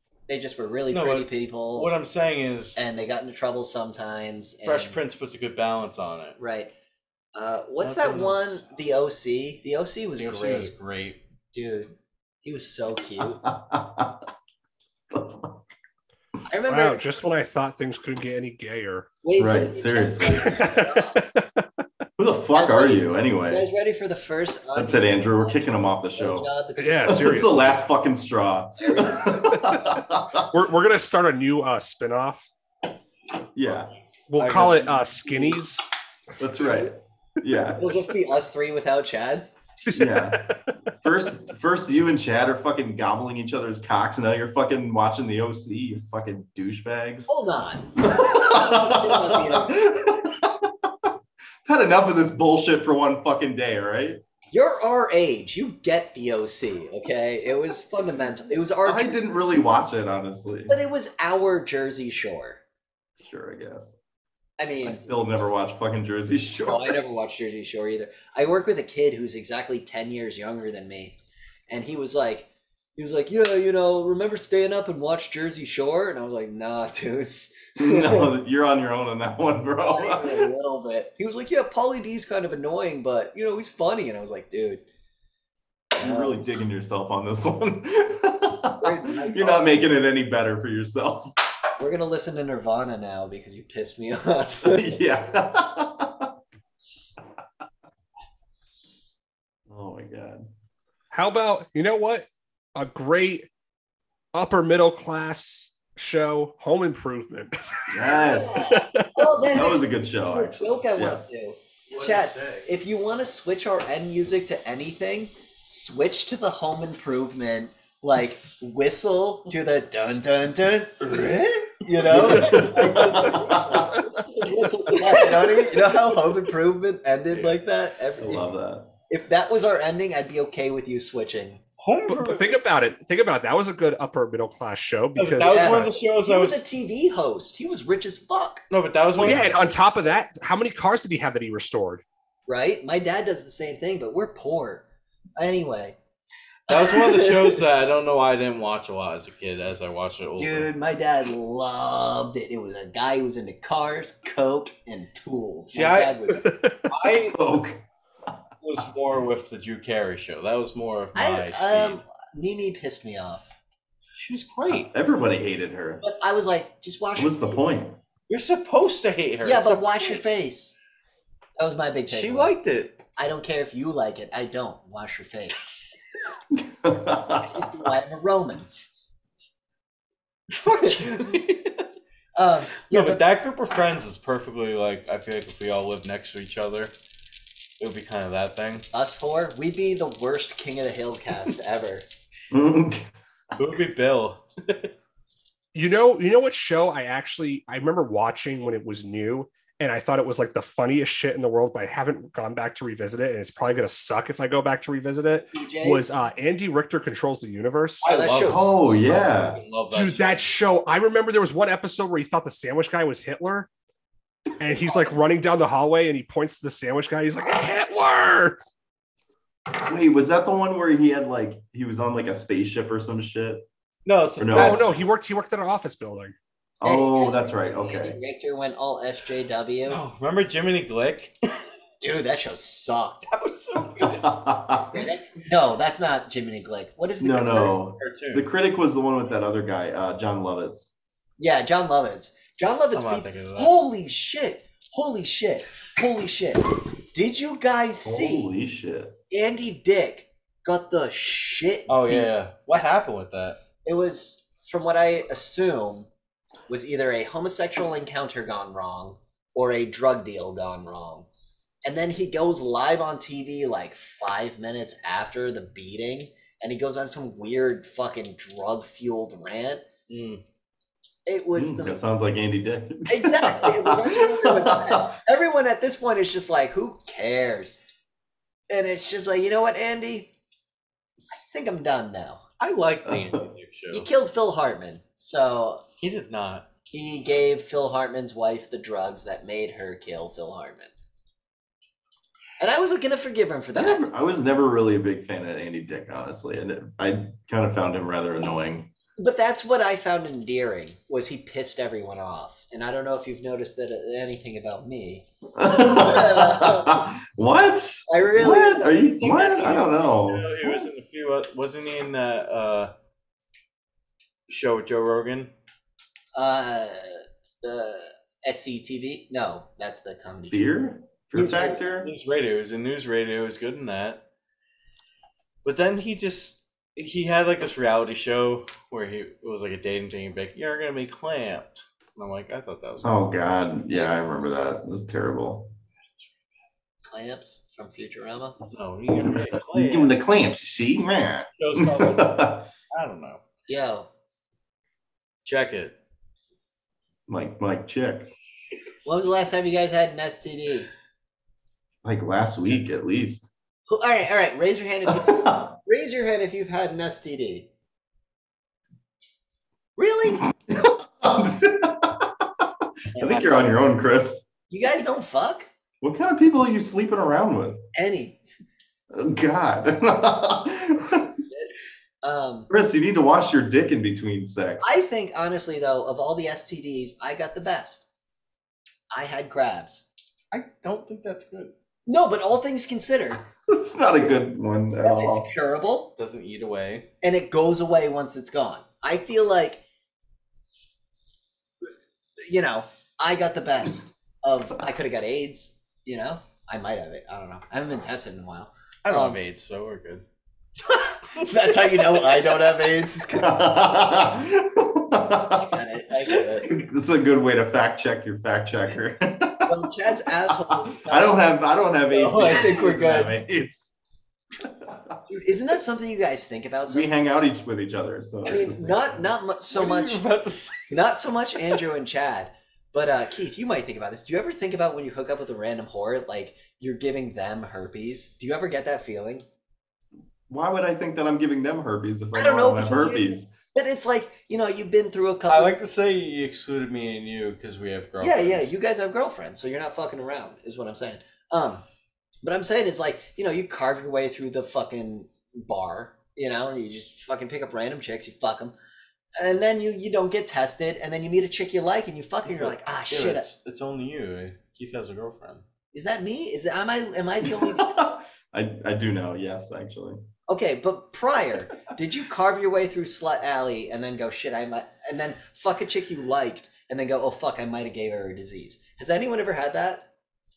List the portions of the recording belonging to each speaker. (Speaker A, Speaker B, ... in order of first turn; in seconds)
Speaker A: 0.3-1.9, 2.8-5.0, 6.4-6.7, 7.3-10.7, 11.5-11.9, 12.4-13.4, 16.5-17.0, 19.2-21.2, 22.5-27.3, 28.8-29.4, 37.8-39.5, 47.3-50.0, 54.5-59.1, 60.7-62.6, 64.6-65.2, 66.7-71.2, 71.7-78.3, 79.8-84.8, 85.9-86.5, 88.8-89.8, 91.8-94.9, 108.0-128.5, 129.1-131.6, 135.4-138.6, 142.5-144.9, 145.4-146.0, 146.7-147.6, 150.4-156.4, 161.1-163.5, 166.0-167.6, 169.4-170.8, 171.6-172.5, 173.2-175.7, 177.5-178.7, 180.7-181.4, 182.4-183.2, 188.9-192.1, 205.5-206.1, 208.0-209.3, 226.8-230.0, 232.0-233.3, 234.9-237.8, 241.4-246.6, 247.1-248.5, 249.3-252.8, 253.8-256.1, 256.7-261.3, 261.8-269.8, 271.2-272.0, 273.1-277.8, 278.7-280.3, 281.3-282.4, 283.9-285.8, 286.9-290.9, 292.6-294.0, 299.2-307.1, 308.1-309.9, 316.3-320.7, 321.3-321.8, 337.1-338.6, 343.7-344.1, 349.0-350.9, 353.9-357.7, 359.9-360.5, 364.7-365.7, 367.9-368.4, 371.5-371.7, 372.2-372.7, 374.8-378.1, 379.1-380.1, 382.1-383.4, 385.0-386.1, 387.2-389.8, 392.4-399.4, 401.3-403.7, 405.6-406.9, 409.6-411.5, 412.1-413.3, 415.3-417.1, 418.4-420.2, 420.9-429.4, 432.3-435.7, 438.2-441.8, 442.4-448.7, 449.4-453.5, 455.9-457.9, 460.5-470.1
Speaker B: 0.9-2.9, 4.6-6.4, 7.8-8.6, 10.2-11.2, 33.6-35.6, 111.9-112.7, 122.1-123.3, 127.3-127.6, 131.8-132.6, 135.2-136.6, 138.7-139.6, 146.7-150.7, 155.7-156.2, 156.9-157.4, 158.6-162.0, 164.1-164.9, 168.3-170.2, 172.1-173.0, 180.5-181.8, 182.9-186.9, 187.8-188.9, 193.6-194.9, 208.0-210.6, 224.1-225.0, 229.9-231.4, 233.3-234.3, 238.0-238.5, 242.9-243.7, 251.9-253.6, 270.1-270.4, 282.6-284.1, 286.0-286.7, 309.3-312.9, 314.5-315.5, 322.0-324.2, 325.6-333.2, 338.7-340.2, 341.6-343.4, 345.4-345.9, 363.1-363.7, 380.5-381.7, 386.2-387.1, 399.0-400.2, 419.7-421.0, 435.5-438.7, 452.5-455.6
Speaker C: 13.2-14.3, 15.1-15.6, 19.4-20.7, 22.2-23.7, 24.8-26.5, 27.0-30.5, 33.5-33.9, 36.4-38.0, 39.9-40.5, 41.0-47.3, 48.0-51.1, 51.6-54.2, 58.8-60.7, 63.2-63.9, 64.8-67.0, 77.8-80.4, 86.0-91.3, 94.6-96.3, 99.7-100.5, 107.9-108.7, 109.5-111.3, 122.0-124.0, 128.2-128.9, 157.3-157.8, 164.7-166.0, 167.2-168.0, 176.5-177.7, 192.5-193.1, 208.4-209.6, 219.8-223.7, 224.4-224.9, 226.8-228.2, 234.0-235.1, 237.2-240.9, 248.0-249.2, 271.6-275.1, 283.1-283.4, 293.7-298.9, 305.6-310.8, 320.5-322.1, 333.0-335.7, 339.5-342.7, 347.3-348.3, 352.0-353.5, 355.1-355.7, 360.6-364.5, 366.0-367.9, 369.1-371.3, 372.7-374.9, 383.7-385.5, 403.3-405.8, 406.6-409.9, 411.1-413.9, 414.6-415.1, 416.9-419.2, 430.5-433.5, 457.4-460.2
Speaker D: 16.7-19.1, 20.3-21.6, 26.8-27.8, 30.5-32.5, 34.3-35.8, 39.9-40.6, 101.1-103.5, 104.3-109.1, 132.1-135.9, 139.2-142.0, 156.4-156.9, 195.7-208.0, 209.9-213.7, 214.6-218.6, 224.5-226.3